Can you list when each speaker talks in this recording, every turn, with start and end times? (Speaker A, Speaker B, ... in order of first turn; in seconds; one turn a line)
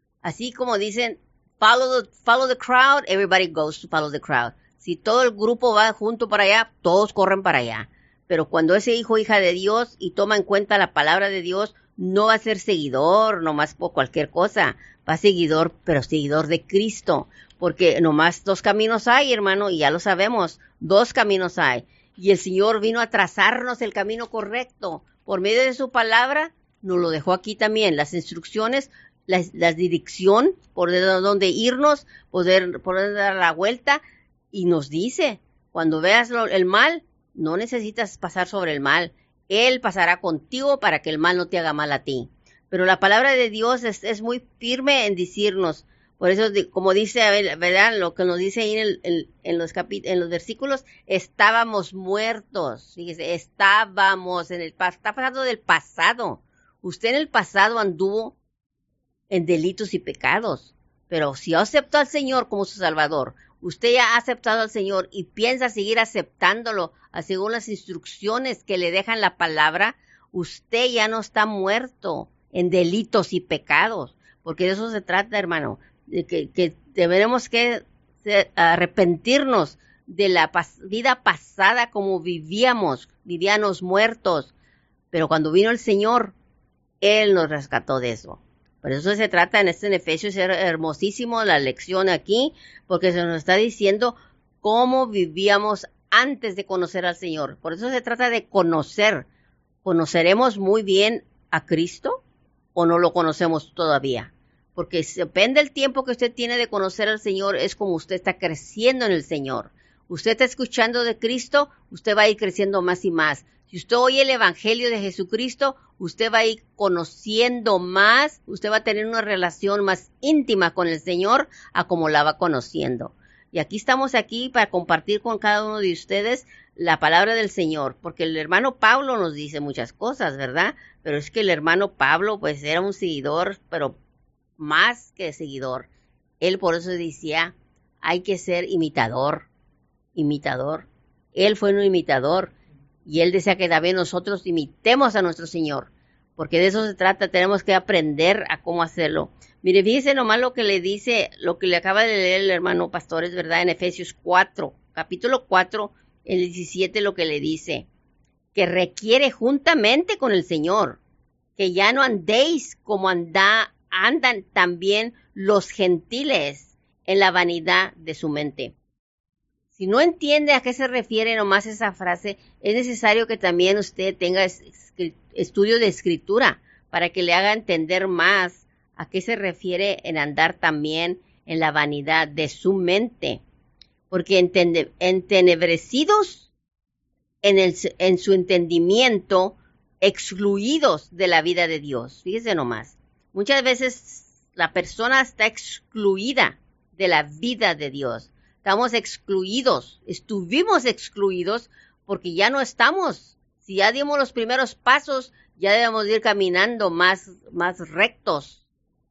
Speaker A: 0.2-34.0
Speaker A: 34.5-58.4
Speaker A: 59.3-84.5
Speaker A: 85.1-86.3
Speaker A: 87.0-99.3
Speaker A: 99.8-102.2
Speaker A: 102.7-134.0
Speaker A: 134.6-135.9
Speaker A: 136.4-139.5
Speaker A: 140.1-142.5
Speaker A: 143.1-157.9
Speaker A: 158.5-161.0
Speaker A: 161.6-168.7
Speaker A: 169.8-183.4
Speaker A: 184.1-186.5
Speaker A: 187.4-208.6